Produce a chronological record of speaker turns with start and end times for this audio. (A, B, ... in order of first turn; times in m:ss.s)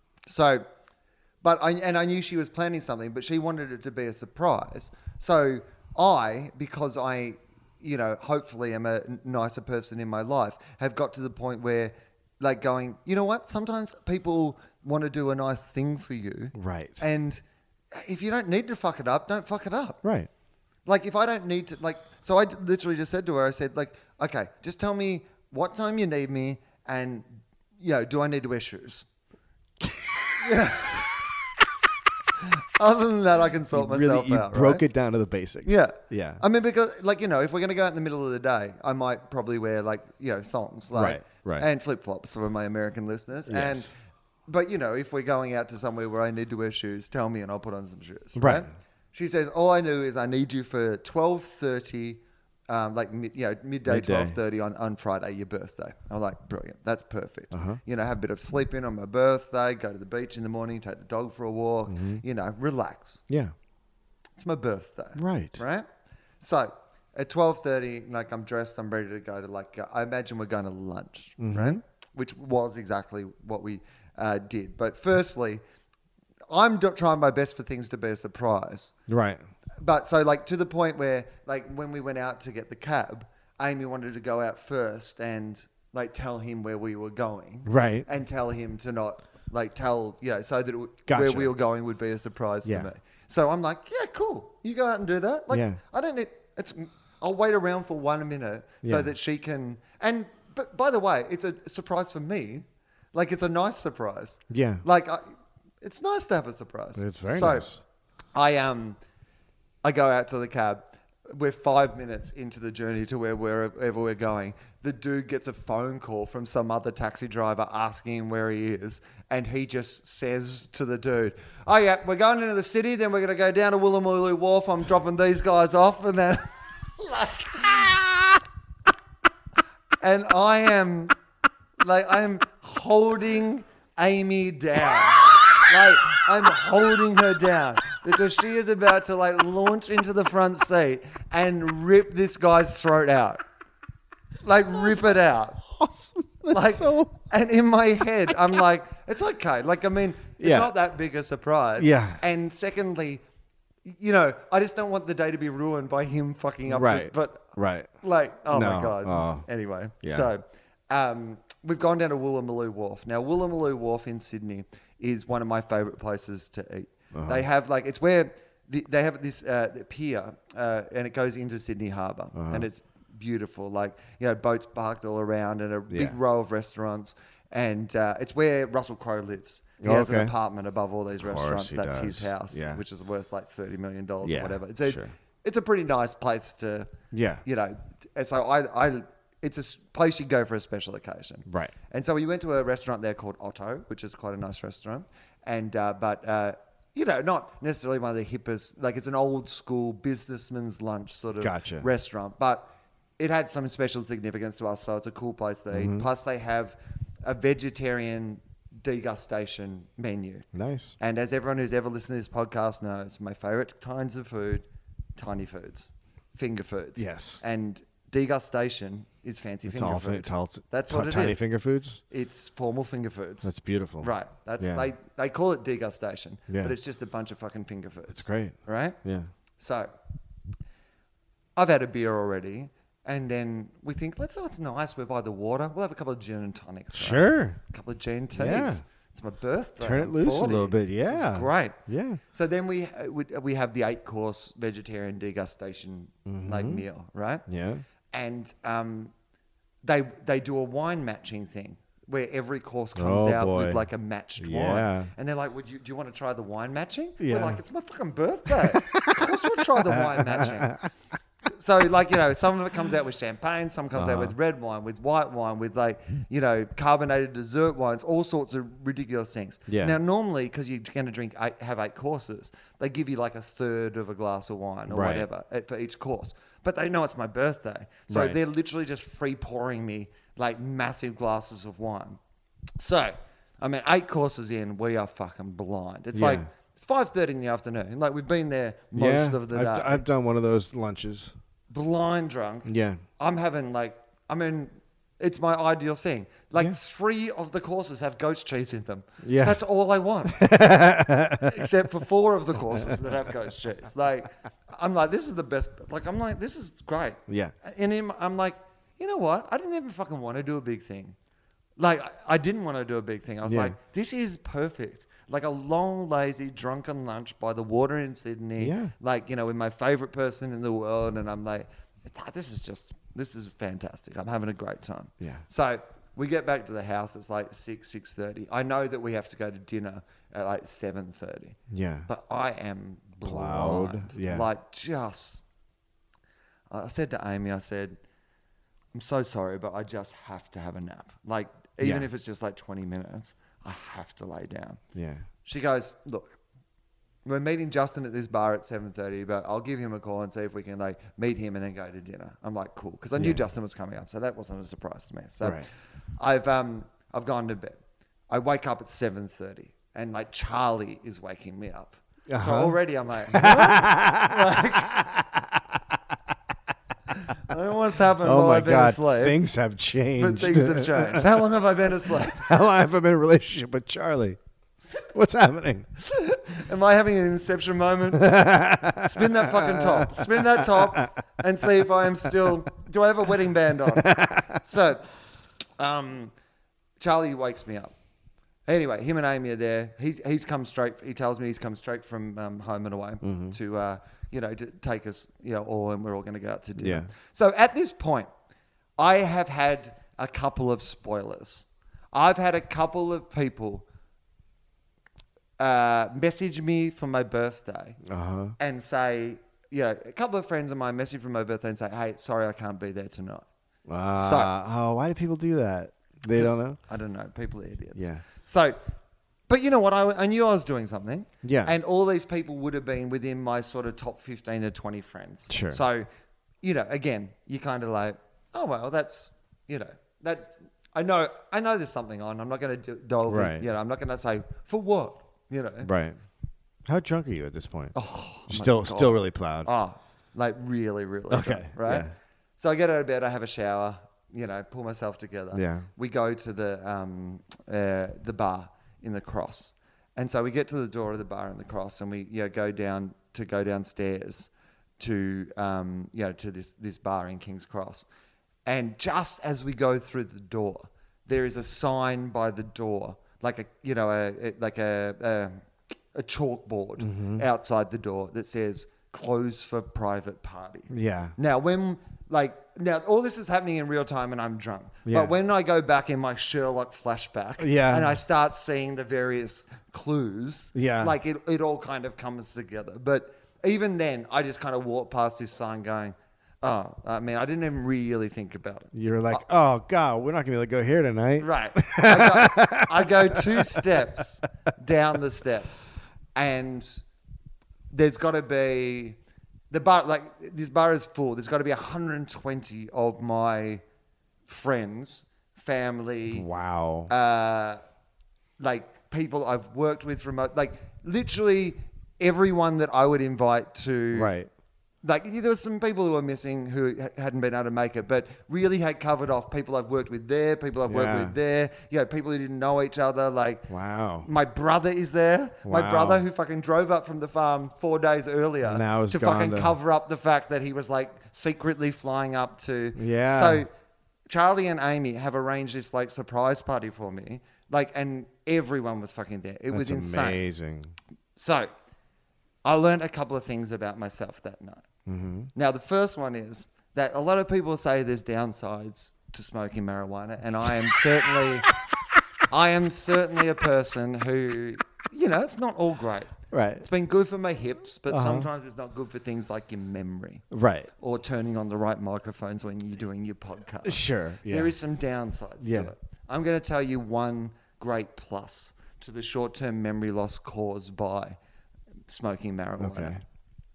0:00.3-0:00.6 A
0:01.4-0:17.4 A
0:16.6-0:17.0 B
0:17.9-0:20.0 A
0:20.0-0:20.3 B
0:20.9-0:27.3 A
0:27.8-0:29.1 A
0:30.4-0:31.1 A
0:32.4-0:34.8 A
0:33.7-0:36.4 B
0:35.6-0:43.9 A
0:40.9-0:41.7 B
0:43.5-0:43.9 B
0:44.5-1:03.2 A
0:48.4-0:48.7 B
0:53.9-0:54.4 B
0:57.5-0:57.8 B
1:01.9-1:02.2 B
1:03.3-1:03.5 B
1:04.4-1:05.9 A
1:05.2-1:05.6 B
1:06.4-1:15.6 A
1:11.4-1:11.8 B
1:16.5-1:18.9 A
1:19.1-1:19.4 B
1:19.8-1:45.3 A
1:27.7-1:28.1 B
1:31.1-1:31.5 B
1:35.5-1:35.8 B
1:38.8-1:39.1 B
1:44.5-1:44.8 B
1:45.8-1:47.7 A
1:47.0-1:47.8 B
1:48.4-1:49.0 A
1:49.8-2:08.4 A
2:10.0-2:11.1 A
2:11.8-2:23.4 A
2:24.4-2:25.6 A
2:24.8-2:25.1 B
2:25.6-2:27.2 B
2:26.5-2:33.2 A
2:30.4-2:30.7 B
2:31.8-2:32.2 B
2:33.9-3:30.5 A
2:36.7-2:37.9 B
2:38.5-2:39.5 B
2:40.0-2:40.3 B
2:47.1-2:47.5 B
2:52.4-2:52.7 B
2:55.9-2:56.2 B
2:59.8-3:00.3 B
3:01.2-3:02.8 B
3:04.2-3:05.2 B
3:07.1-3:07.4 B
3:11.5-3:11.7 B
3:21.4-3:21.9 B
3:25.7-3:26.1 B
3:30.5-3:31.0 B
3:31.0-3:41.5 A
3:37.0-3:37.4 B
3:39.7-3:42.0 B
3:42.1-3:49.0 A
3:43.4-3:44.9 B
3:46.5-3:46.7 B
3:48.1-3:49.3 B
3:49.6-3:49.9 A
3:51.6-4:01.8 A
3:56.9-3:57.6 B
3:58.4-3:58.8 B
3:59.8-4:02.2 B
4:02.3-4:07.5 A
4:06.3-4:06.8 B
4:07.5-4:07.8 B
4:08.1-4:09.1 A
4:09.8-4:20.8 A
4:13.0-4:13.8 B
4:14.4-4:15.1 B
4:17.2-4:17.6 B
4:18.5-4:20.9 B
4:21.5-4:42.2 A
4:23.9-4:24.4 B
4:29.7-4:30.0 B
4:34.9-4:35.3 B
4:38.1-4:38.4 B
4:42.8-4:50.0 A
4:46.1-4:46.5 B
4:49.0-4:51.3 B
4:51.7-5:00.5 A
4:52.7-4:53.0 B
4:59.2-4:59.6 B
5:00.3-5:01.7 B
5:01.4-5:11.2 A
5:02.8-5:03.1 B
5:07.3-5:07.5 B
5:11.8-5:35.4 A
5:13.4-5:13.8 B
5:18.6-5:18.9 B
5:31.7-5:32.1 B
5:33.2-5:34.5 B
5:36.7-5:38.0 A
5:38.9-5:44.8 A
5:44.9-5:45.3 B
5:45.4-5:46.4 A
5:47.2-5:55.7 A
5:56.2-6:05.0 A
6:02.3-6:02.8 B
6:03.3-6:06.0 B
6:07.3-6:09.4 A
6:08.2-6:11.4 B
6:10.2-6:12.6 A
6:12.0-6:14.4 B
6:15.1-6:15.9 B
6:16.1-6:18.3 A
6:18.2-6:21.1 B
6:19.0-6:25.0 A
6:23.9-6:24.6 B
6:25.8-6:26.3 A
6:27.0-6:27.9 A
6:28.7-6:38.3 A
6:33.2-6:33.6 B
6:36.8-6:37.1 B
6:39.0-6:43.9 A
6:45.6-6:48.0 A
6:48.1-6:48.6 B
6:48.6-6:53.5 A
6:53.9-6:56.8 B
6:54.1-6:54.5 A
6:56.3-6:58.8 A
6:58.0-6:58.2 B
6:59.5-7:06.1 A
7:01.4-7:01.8 B
7:05.5-7:05.8 B
7:06.6-7:15.9 A
7:13.3-7:13.6 B
7:15.8-7:16.2 B
7:16.8-7:18.0 B
7:17.9-7:38.1 A
7:18.5-7:19.7 B
7:21.3-7:22.1 B
7:25.5-7:25.9 B
7:38.7-8:09.4 A
7:47.0-7:47.4 B
7:50.9-7:51.4 B
7:55.1-7:55.3 B
7:57.6-7:58.2 B
8:00.8-8:01.2 B
8:08.9-8:14.0 B
8:11.4-8:17.0 A
8:17.9-8:19.2 A
8:19.7-8:23.8 A
8:24.5-8:26.5 A
8:26.3-8:27.1 B
8:27.1-8:27.8 A
8:28.6-8:34.3 A
8:34.1-8:34.5 B
8:35.0-8:43.7 A
8:40.9-8:41.4 B
8:43.7-8:44.3 B
8:44.2-8:53.7 A
8:45.6-8:46.2 B
8:48.6-8:49.8 B
8:53.0-8:53.6 B
8:54.3-9:00.4 A
8:59.7-9:01.0 B
9:01.4-9:01.7 A
9:02.6-9:04.9 A
9:05.1-9:05.5 B
9:05.5-9:11.7 A
9:12.5-9:20.4 A
9:16.5-9:16.8 B
9:18.1-9:18.5 B
9:20.5-9:20.9 B
9:21.0-9:31.4 A
9:23.8-9:24.7 B
9:25.6-9:25.9 B
9:32.1-9:33.2 A
9:32.8-9:33.2 B